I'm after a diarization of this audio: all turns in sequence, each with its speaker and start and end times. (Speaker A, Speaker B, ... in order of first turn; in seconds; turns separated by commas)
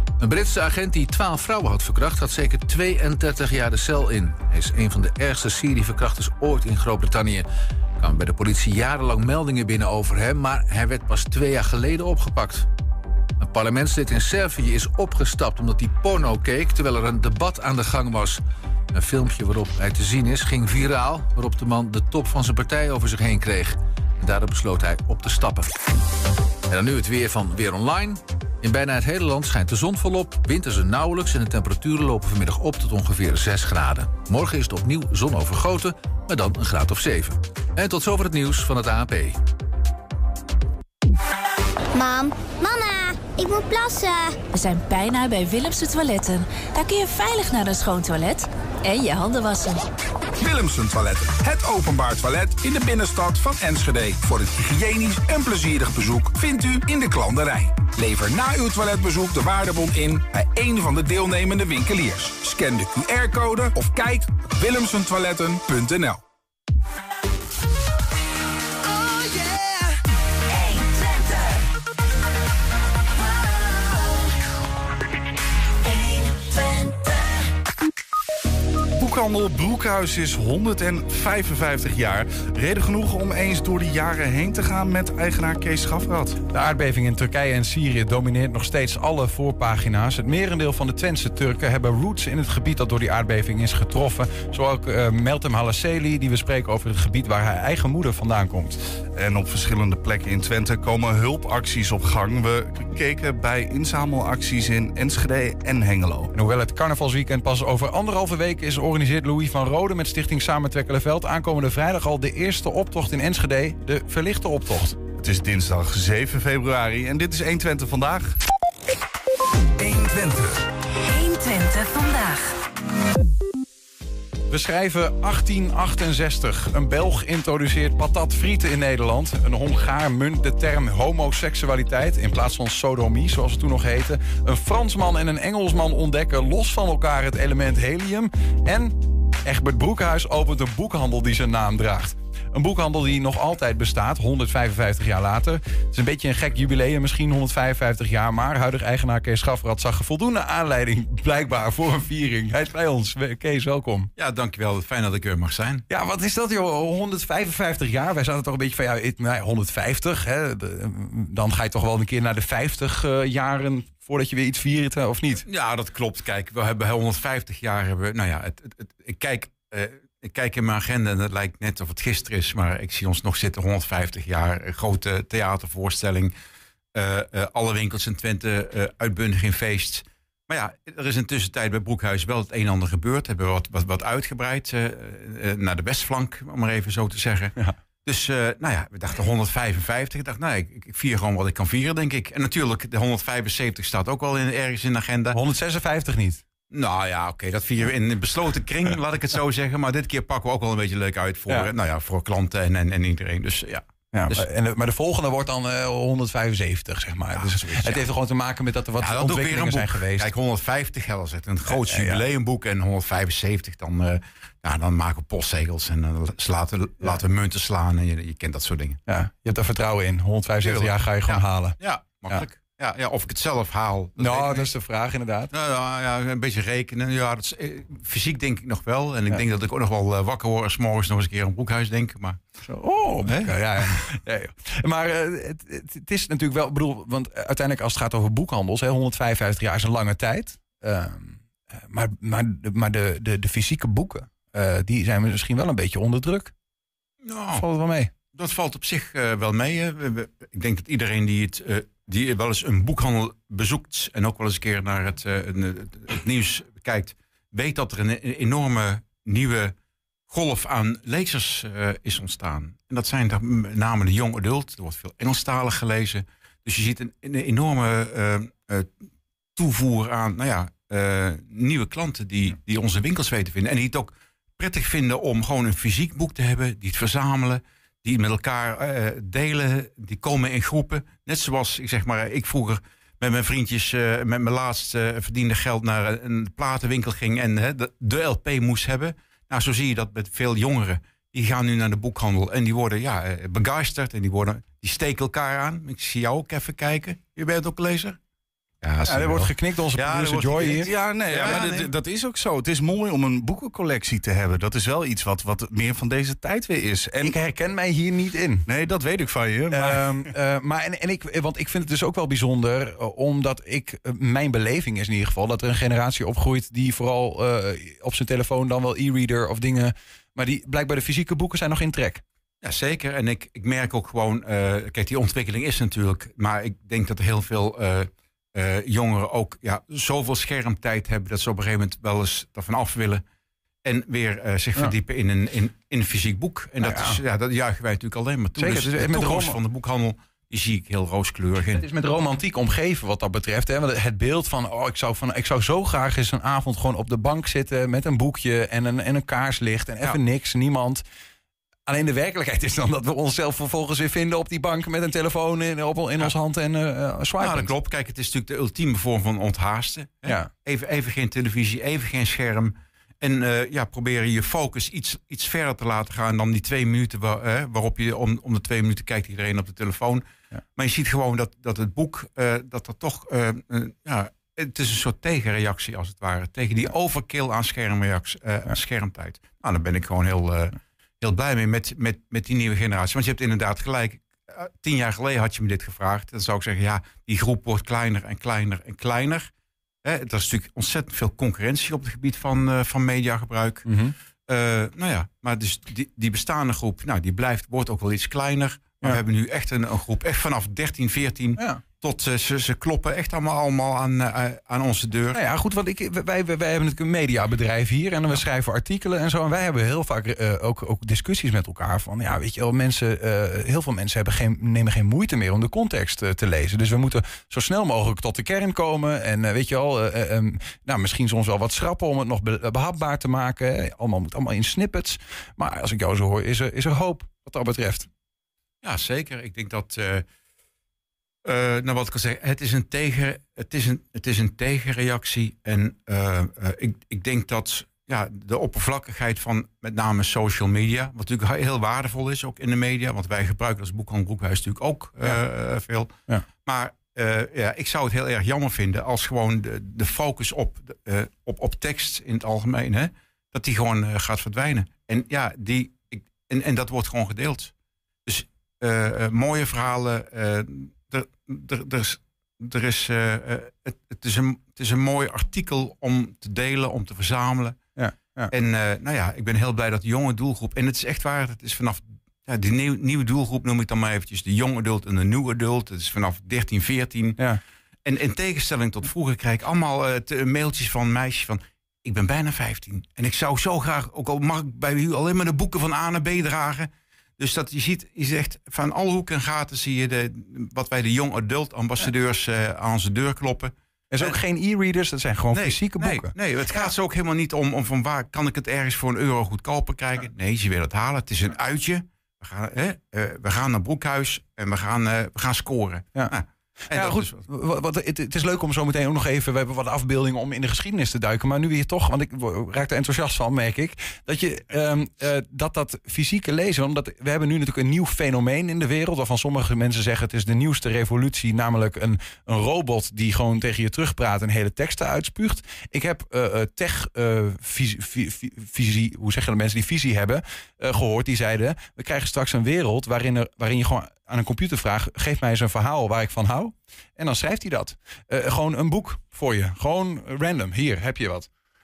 Speaker A: 0.2-7.5, Speaker A: 8.0-12.7, Speaker A: 13.4-18.4, Speaker A: 18.9-25.8, Speaker A: 26.7-39.4, Speaker B: 42.0-44.4, Speaker C: 44.5-49.8, Speaker D: 50.4-66.2, Speaker C: 69.0-69.8, Speaker C: 70.5-71.4, Speaker C: 76.0-77.0, Speaker E: 79.0-86.4, Speaker F: 86.5-98.8, Speaker E: 99.1-106.3, Speaker F: 106.3-115.0, Speaker E: 115.2-118.4, Speaker E: 119.8-120.6, Speaker C: 120.9-122.6, Speaker F: 124.5-154.1, Speaker G: 154.2-155.9, Speaker F: 155.9-165.4, Speaker G: 165.4-176.3, Speaker G: 176.9-195.4, Speaker F: 195.3-196.4, Speaker G: 196.7-204.5, Speaker F: 204.1-210.3, Speaker G: 207.3-208.0, Speaker G: 209.0-219.0, Speaker F: 211.7-212.2, Speaker F: 219.1-221.8, Speaker G: 220.6-224.7, Speaker F: 224.2-225.5, Speaker G: 225.5-232.4, Speaker F: 232.7-246.5, Speaker G: 233.2-234.2, Speaker G: 247.2-247.7, Speaker F: 247.5-248.1, Speaker G: 248.3-259.8, Speaker G: 260.3-268.9, Speaker G: 269.6-298.2, Speaker G: 298.8-301.9, Speaker F: 299.1-300.9, Speaker E: 300.8-307.4, Speaker F: 307.2-308.7, Speaker E: 308.7-310.3, Speaker F: 309.7-322.2, Speaker G: 322.6-333.2, Speaker G: 333.8-341.8, Speaker F: 336.8-337.2, Speaker F: 338.6-339.6, Speaker F: 341.8-351.0, Speaker F: 351.9-357.7, Speaker G: 357.4-370.2, Speaker F: 360.2-360.5, Speaker G: 370.8-389.5, Speaker G: 390.0-393.9, Speaker F: 393.9-394.1, Speaker G: 394.5-405.4, Speaker F: 401.6-401.8, Speaker F: 405.3-428.1, Speaker G: 428.8-430.2, Speaker G: 431.4-457.7, Speaker G: 458.3-467.8, Speaker F: 468.0-468.5, Speaker G: 468.5-477.4, Speaker G: 478.1-494.4, Speaker F: 494.1-496.9, Speaker G: 495.5-507.4, Speaker F: 506.9-541.5